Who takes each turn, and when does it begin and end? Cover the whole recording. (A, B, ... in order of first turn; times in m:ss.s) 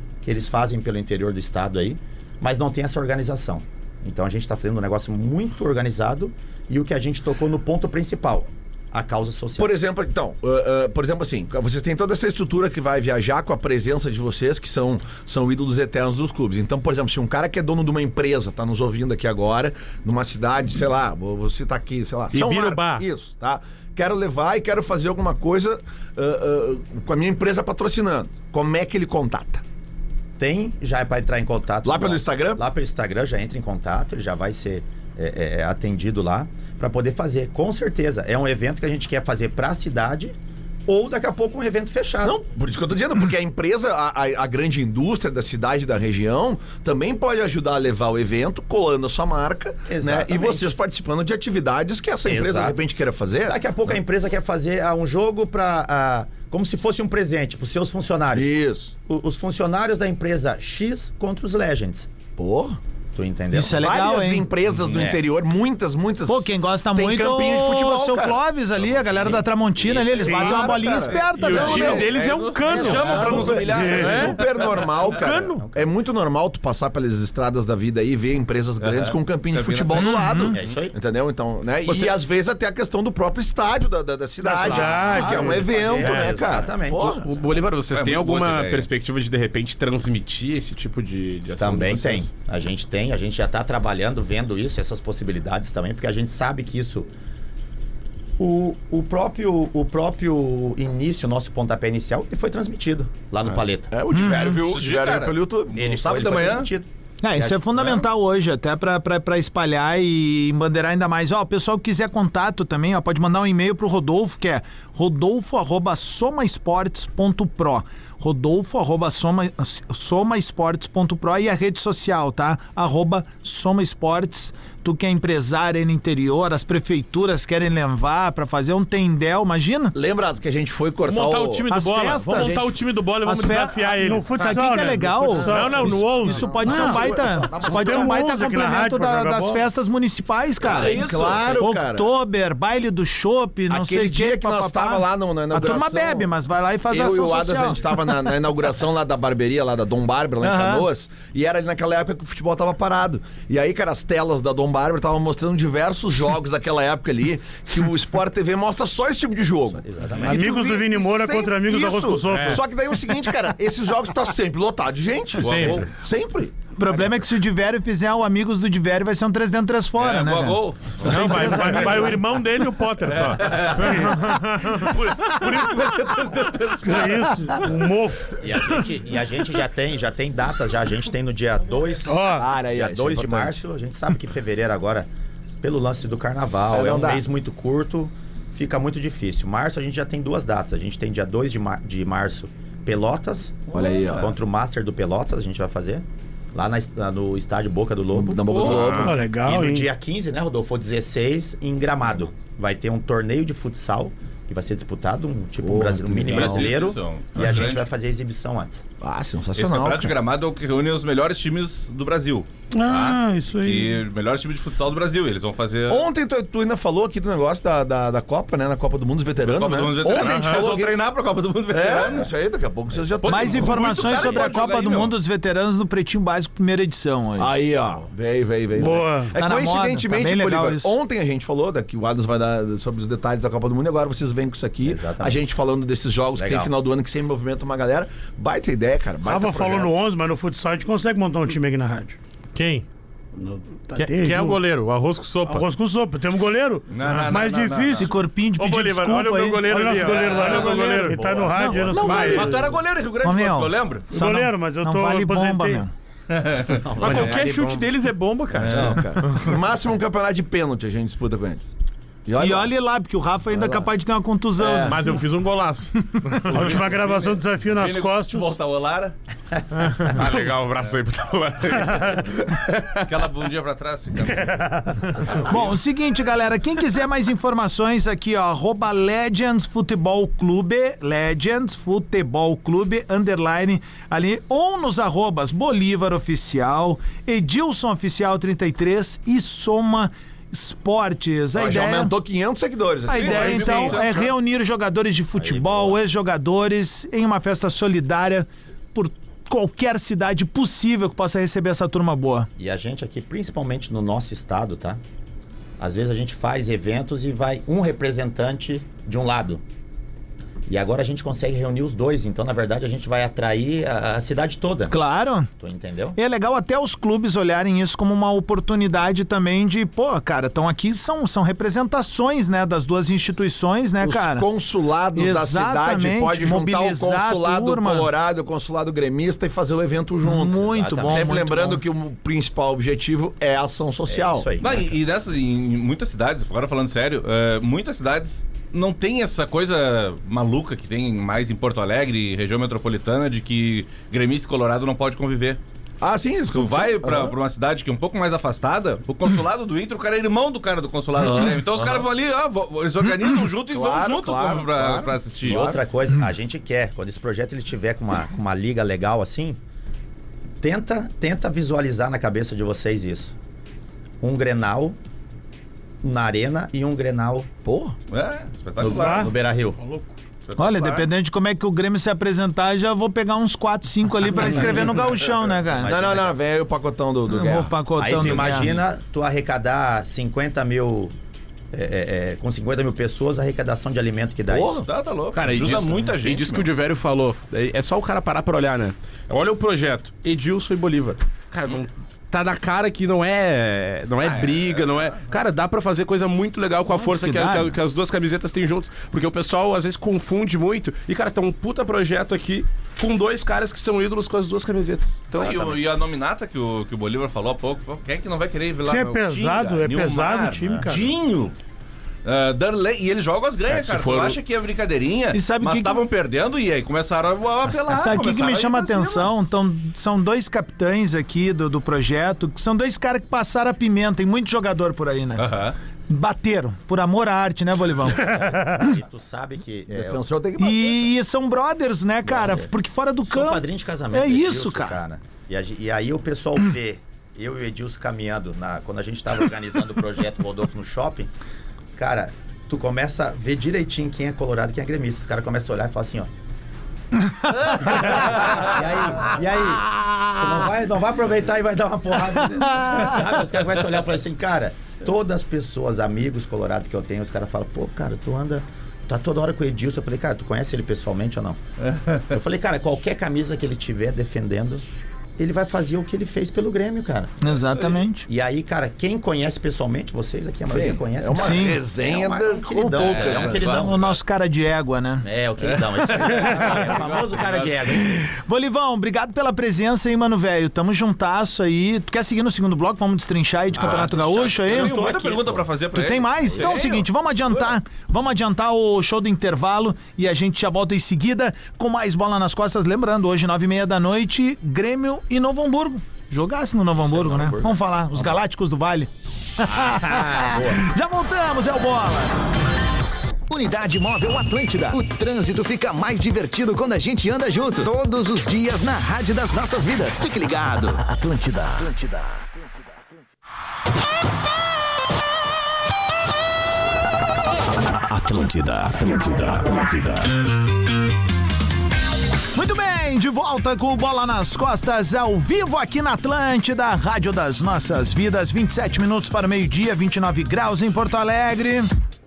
0:00.2-0:09.8 A
0:09.6-0:29.6 B
0:22.3-0:23.0 C
0:30.4-0:40.3 A
0:31.8-0:32.6 B
0:40.9-0:42.4 A
0:42.2-0:53.5 B
0:49.9-0:50.7 A
0:52.2-0:52.8 A
0:53.4-1:02.1 A
0:58.3-0:58.9 B
1:02.4-1:02.8 B
1:03.1-1:03.9 A
1:03.5-1:04.5 D
1:03.8-1:08.4 B
1:04.8-1:05.2 A
1:06.2-1:12.0 D
1:08.9-1:14.7 E
1:10.2-1:10.8 F
1:10.7-1:27.3 B
1:11.3-1:14.2 A
1:11.4-1:14.3 C
1:13.7-1:14.2 F
1:15.1-1:15.7 C
1:15.5-1:15.9 A
1:18.8-1:20.1 E
1:19.9-1:20.6 D
1:20.3-1:21.0 A
1:24.4-1:27.5 A
1:24.6-1:26.3 C
1:24.8-1:25.4 F
1:27.2-1:32.3 G
1:27.9-1:28.9 E
1:31.6-1:37.1 A
1:38.4-1:43.9 A
1:43.4-1:45.8 B
1:44.1-1:44.6 D
1:44.6-1:46.7 E
1:45.7-1:47.8 A
1:47.2-2:10.0 D
2:09.9-2:11.7 B
2:11.0-2:14.6 C
2:11.6-2:28.3 D
2:12.3-2:12.6 B
2:14.0-2:16.0 F
2:15.3-2:16.8 C
2:16.5-2:18.2 B
2:16.6-2:19.6 F
2:20.6-2:21.4 E
2:20.6-2:22.1 B
2:23.7-2:26.3 B
2:26.9-2:46.6 B
2:30.4-2:30.9 D
2:39.8-2:40.5 A
2:40.2-2:42.6 F
2:45.4-2:45.9 E
2:45.4-2:45.8 C
2:46.8-2:52.2 D
2:50.0-2:52.2 E
2:51.0-2:55.3 C
2:53.0-2:57.3 E
2:56.8-2:58.4 F
2:58.4-3:05.1 A
3:02.0-3:02.4 F
3:02.3-3:03.6 B
3:05.6-3:28.8 A
3:06.7-3:07.2 B
3:13.7-3:14.3 B
3:13.7-3:14.3 E
3:18.1-3:19.2 B
3:18.5-3:19.0 E
3:18.7-3:19.0 G
3:19.0-3:19.9 F
3:25.6-3:26.8 B
3:26.2-3:27.9 E
3:29.0-3:30.2 B
3:29.6-3:36.1 E
3:32.7-3:34.0 F
3:35.9-3:41.0 B
3:39.4-3:42.3 E
3:40.2-3:40.6 C
3:41.7-3:44.7 B
3:43.0-3:45.1 E
3:43.2-3:47.5 D
3:47.4-3:59.9 B
3:48.8-3:49.3 F
3:49.3-3:51.0 D
3:54.8-3:55.4 A
3:56.3-3:56.7 A
3:59.2-4:02.2 F
4:02.5-4:02.8 C
4:03.3-4:04.6 F
4:03.9-4:05.6 C
4:05.4-4:08.1 F
4:06.9-4:08.1 E
4:07.9-4:09.7 D
4:08.6-4:12.5 C
4:09.7-4:12.7 F
4:10.4-4:12.1 D
4:11.9-4:12.5 B
4:12.0-4:14.1 E
4:13.2-4:15.9 D
4:14.1-4:15.8 F
4:16.3-4:17.8 E
4:16.8-4:17.6 A
4:16.9-4:19.5 C
4:18.5-4:19.4 E
4:18.7-4:21.7 B
4:22.2-4:22.7 B
4:22.4-4:25.1 D
4:24.7-4:26.9 C
4:26.5-4:28.5 F
4:26.6-4:29.1 E
4:30.0-4:33.0 G
4:33.0-4:35.7 E
4:34.3-4:35.1 F
4:35.4-4:52.1 D
4:51.5-4:54.0 B
4:53.1-5:02.5 D
4:53.1-4:54.3 E
4:55.4-4:56.0 A
5:02.6-5:05.0 A
5:05.8-5:09.6 A
5:10.7-5:15.0 A
5:14.9-5:15.5 D
5:15.6-5:16.2 A
5:16.1-5:24.5 D
5:24.0-5:34.5 B
5:25.1-5:28.1 D
5:30.2-5:31.8 D
5:30.6-5:31.4 A
5:34.1-5:35.0 A
5:34.6-5:45.6 E
5:46.0-5:47.3 B
5:46.5-5:55.7 E
5:51.3-5:52.0 B
5:53.7-5:55.8 B
5:55.4-5:59.6 A
6:00.6-6:03.3 A
6:04.2-6:05.0 A
6:06.0-6:07.5 A
6:07.6-6:08.0 B
6:08.1-6:09.3 E
6:08.8-6:09.8 A
6:08.9-6:10.1 F
6:10.5-6:11.1 E
6:10.6-6:15.9 D
6:14.3-6:16.4 A
6:15.8-6:17.8 B
6:17.3-6:18.8 D
6:17.9-6:21.1 A
6:21.7-6:24.8 A
6:24.5-6:24.8 B
6:24.8-6:26.7 E
6:25.3-6:45.5 G
6:34.2-6:35.3 E
6:36.9-6:37.8 D
6:45.3-6:51.5 E
6:45.3-6:45.8 A
6:48.8-6:51.0 F
6:50.7-6:51.1 A
6:52.2-6:59.3 E
6:53.7-6:54.4 G
6:55.3-6:56.0 D
6:57.7-7:05.5 D
7:05.4-7:05.8 E
7:06.1-7:08.9 D
7:08.1-7:10.2 A
7:09.9-7:11.1 B
7:10.6-7:15.0 D
7:12.2-7:12.7 A
7:13.3-7:21.3 A
7:22.0-7:26.3 A
7:27.7-7:41.6 A
7:32.3-7:33.1 D
7:41.8-7:42.2 E
7:42.3-7:44.8 A
7:45.4-7:47.4 A
7:47.4-7:48.3 D
7:48.3-7:54.1 A
7:50.7-7:53.8 B
7:51.3-7:51.8 D
7:53.0-7:54.2 E
7:53.6-7:55.3 D
7:55.2-7:58.3 A
7:55.6-7:57.7 E
7:58.2-8:05.1 D
8:03.8-8:05.7 A
8:03.8-8:07.1 E
8:05.9-8:22.4 D
8:17.0-8:18.3 A
8:20.3-8:20.8 A
8:23.5-8:32.4 H
8:37.7-8:40.4 H
8:42.5-8:51.9 D